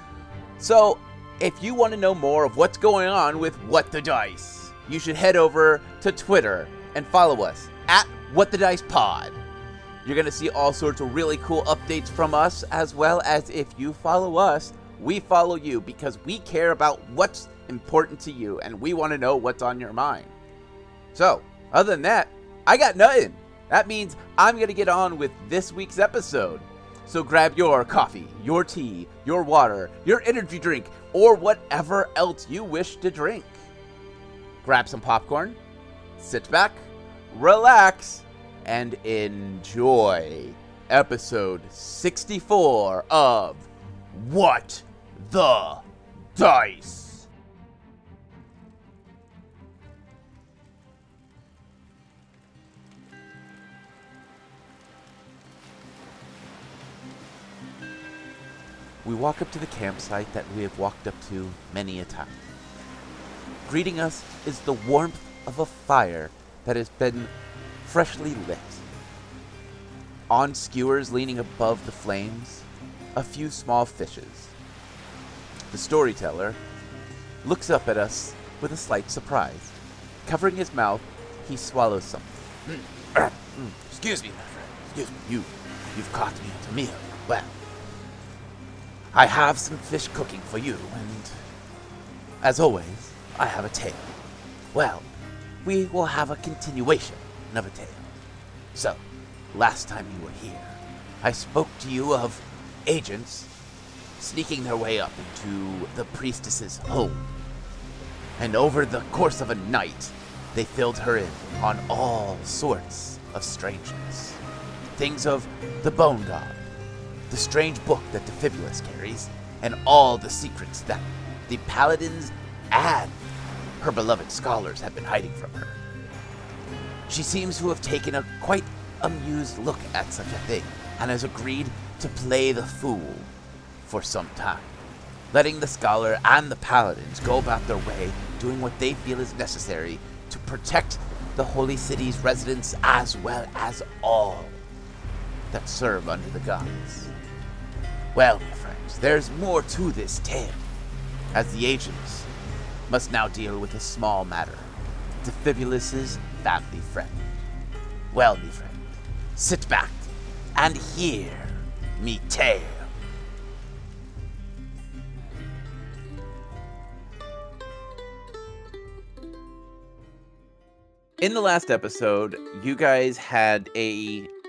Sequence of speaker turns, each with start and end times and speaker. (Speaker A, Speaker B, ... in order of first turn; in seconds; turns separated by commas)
Speaker A: 0.6-9.4, Speaker A: 10.0-20.3, Speaker A: 21.1-33.6, Speaker A: 34.6-35.6, Speaker A: 36.2-45.8, Speaker A: 46.3-47.3, Speaker A: 59.0-62.4, Speaker A: 63.6-67.3, Speaker A: 67.8-68.8, Speaker A: 70.3-74.5, Speaker A: 75.7-76.6, Speaker A: 77.4-79.7, Speaker A: 80.2-82.6, Speaker A: 83.1-87.5, Speaker A: 89.1-91.4, Speaker A: 92.4-94.1, Speaker A: 94.7-95.1, Speaker A: 95.6-98.2, Speaker A: 98.7-99.0, Speaker A: 99.5-103.5, Speaker A: 104.2-107.2, Speaker A: 108.4-114.4, Speaker A: 115.0-116.6, Speaker A: 117.3-123.2, Speaker A: 123.8-125.8, Speaker A: 127.1-133.3, Speaker A: 133.8-134.7, Speaker A: 135.3-144.6, Speaker A: 145.5-147.1, Speaker A: 148.1-150.6, Speaker A: 151.3-152.3, Speaker A: 152.9-154.7, Speaker A: 155.2-157.3, Speaker A: 158.1-162.9, Speaker A: 171.2-174.3